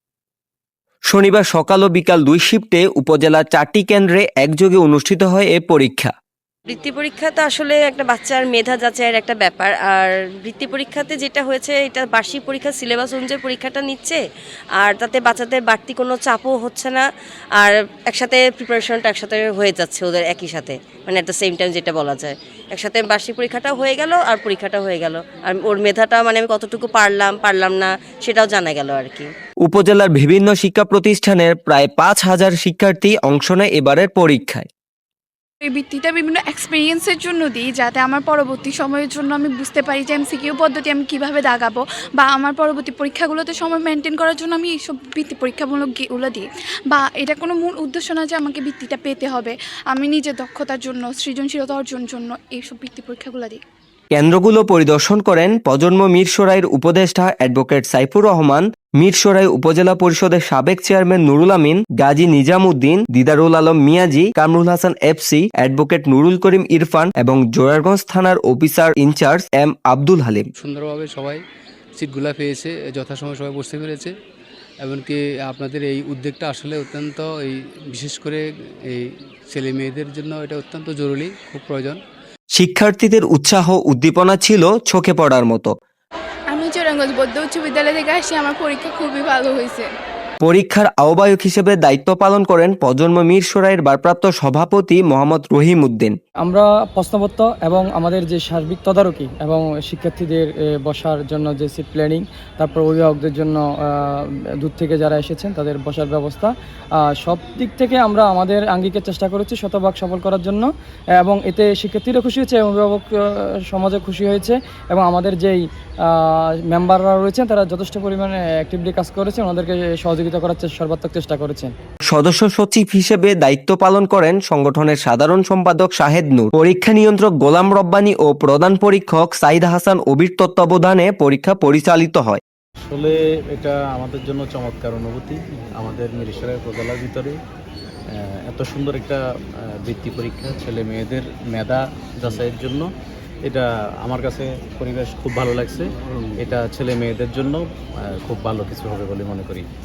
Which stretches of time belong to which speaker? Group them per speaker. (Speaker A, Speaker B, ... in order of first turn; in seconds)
Speaker A: 1.1-6.1, 29.6-34.7, 54.1-70.5, 82.5-85.7, 90.4-96.2, 122.0-132.4
Speaker B: 6.7-14.2, 14.8-17.0, 17.6-29.3
Speaker C: 35.6-53.6, 86.6-89.8
Speaker D: 70.6-71.4, 72.0-74.1, 74.8-82.0
Speaker E: 96.4-106.5, 107.2-121.7
Speaker F: 132.8-137.3, 138.5-139.2, 139.8-142.9, 143.4-149.7